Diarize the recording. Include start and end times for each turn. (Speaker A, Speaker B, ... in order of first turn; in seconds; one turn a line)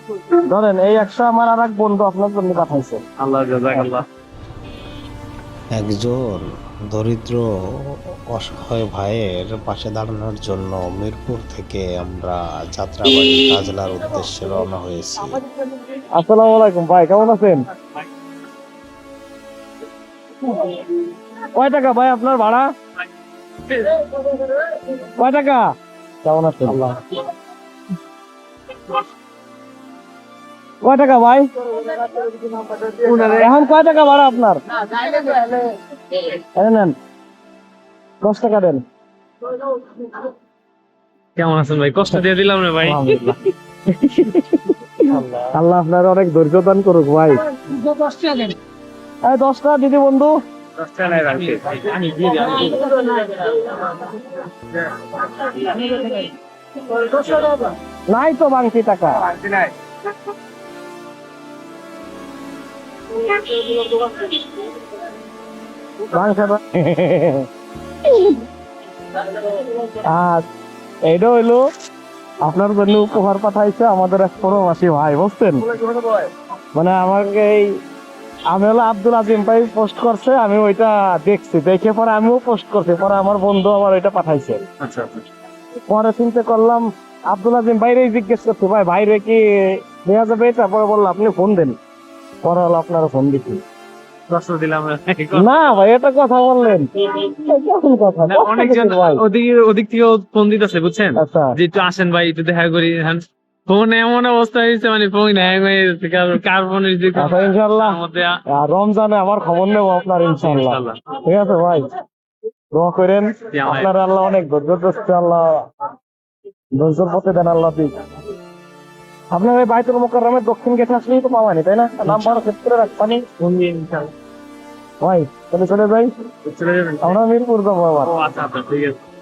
Speaker A: 0.5-3.0
Speaker B: 3.2-4.0
Speaker C: 5.7-7.5
Speaker C: 8.3-15.4
Speaker A: 16.1-17.6
Speaker A: 20.5-20.9
Speaker A: 21.6-22.7
Speaker A: 24.8-25.7
Speaker A: 26.2-26.9
Speaker A: 30.8-35.5
Speaker B: 33.0-33.5
Speaker A: 36.6-37.0
Speaker A: 38.2-38.8
Speaker B: 41.4-43.3
Speaker A: 42.8-43.4
Speaker A: 44.0-47.4
Speaker A: 49.2-50.4
Speaker B: 50.8-52.9
Speaker A: 52.3-52.8
Speaker A: 55.8-56.2
Speaker B: 57.1-57.6
Speaker A: 58.1-59.4
Speaker A: 63.3-64.3
Speaker A: 66.1-67.5
Speaker A: 69.6-70.4
Speaker A: 71.1-71.6
Speaker A: 72.4-75.8
Speaker A: 76.7-77.7
Speaker A: 78.5-84.6
Speaker B: 84.8-85.2
Speaker A: 85.9-91.8
Speaker A: 92.4-93.6
Speaker B: 94.3-95.5
Speaker A: 95.3-99.2
Speaker B: 98.3-108.4
Speaker A: 101.2-101.5
Speaker A: 107.2-108.0
Speaker A: 108.5-111.9
Speaker B: 110.4-111.0
Speaker A: 112.7-115.7
Speaker B: 113.5-113.9
Speaker A: 116.8-117.9
Speaker A: 119.3-123.2
Speaker B: 122.0-122.4
Speaker B: 123.4-124.1
Speaker A: 125.0-126.1
Speaker B: 126.5-127.2
Speaker A: 127.0-128.1
Speaker B: 128.1-129.0